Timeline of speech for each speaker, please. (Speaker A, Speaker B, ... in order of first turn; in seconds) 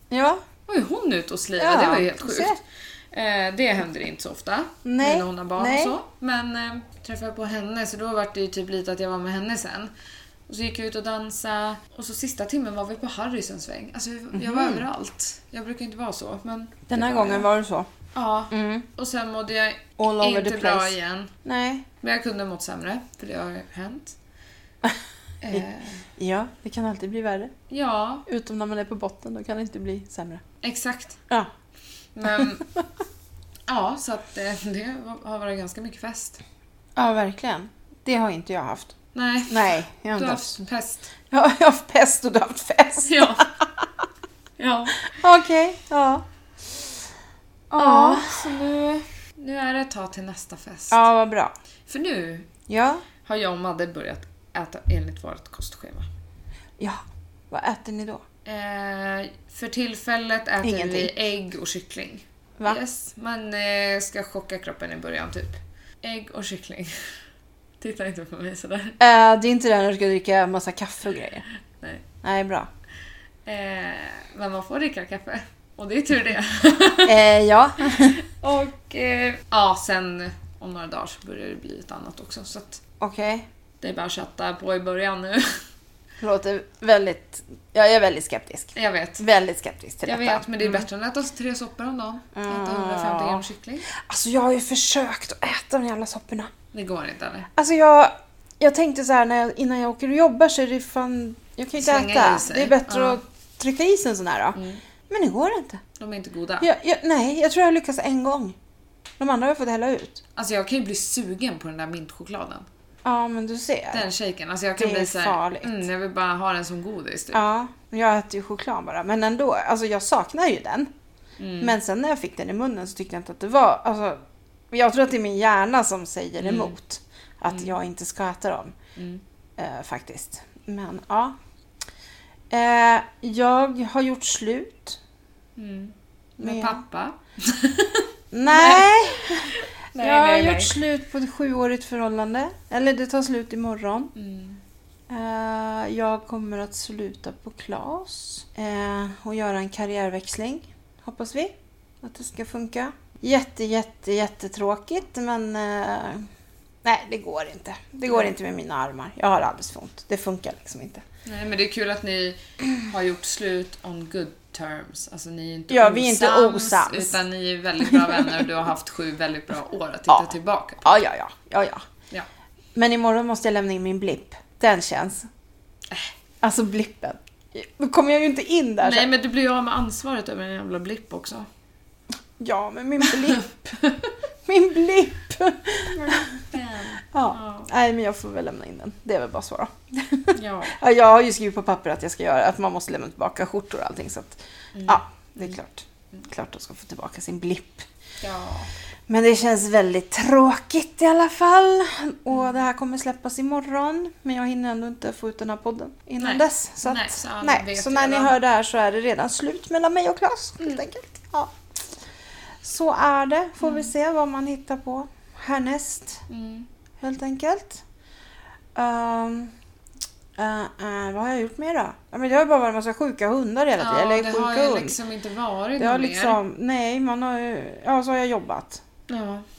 Speaker A: 0.1-0.4, 1.6-2.6, 4.8-6.0, 14.3-14.8, 16.9-17.9, 18.5-18.9, 20.0-21.9, 26.2-27.5, 28.3-30.4, 37.0-38.9, 39.5-40.6, 41.3-43.7, 45.1-46.2, 47.7-48.4, 50.9-51.5, 52.7-53.0, 56.8-58.2, 60.6-61.1, 69.0-71.4, 72.2-72.7, 77.0-78.2, 83.0-83.5, 86.2-90.8, 92.3-96.5, 97.6-104.6, 105.1-105.8, 106.6-108.6, 109.2-110.2, 113.0-114.1, 114.8-115.8, 117.3-120.9, 121.6-128.8, 129.6-131.3, 132.5-135.0, 136.4-136.8, 138.3-144.1, 145.1-156.3, 156.8-161.0, 165.7-167.2, 167.8-168.4, 170.1-171.8, 172.8-175.3, 176.4-179.1, 182.4-183.8, 184.5-186.3, 187.0-197.9, 199.1-211.6, 212.6-216.2, 217.0-217.8, 218.8-219.5, 220.4-225.0, 225.8-228.8
Speaker B: 0.7-2.6, 3.1-9.9, 10.5-17.5, 18.1-21.3, 22.0-24.2, 25.4-26.1, 27.7-28.3, 30.6-31.2, 32.1-32.6, 33.7-36.4, 39.1-41.1, 43.0-43.5, 44.6-45.1, 47.7-51.1, 51.9-52.5, 53.2-56.1, 58.5-67.0, 67.8-69.0, 71.8-72.0, 73.5-77.2, 77.8-82.8, 83.8-85.6, 88.8-89.2, 90.0-93.9, 96.7-97.5, 101.8-103.2, 104.5-104.8, 106.0-106.7, 110.4-112.7, 113.9-117.4, 121.4-121.7, 126.4-126.8, 129.0-129.2, 135.6-140.8, 144.2-144.6, 161.2-171.0, 178.8-181.5, 185.9-187.7, 190.3-190.8, 194.7-195.0, 198.2-198.7, 206.2-208.4, 213.6-213.9, 216.3-216.7, 223.8-226.4, 229.1-229.4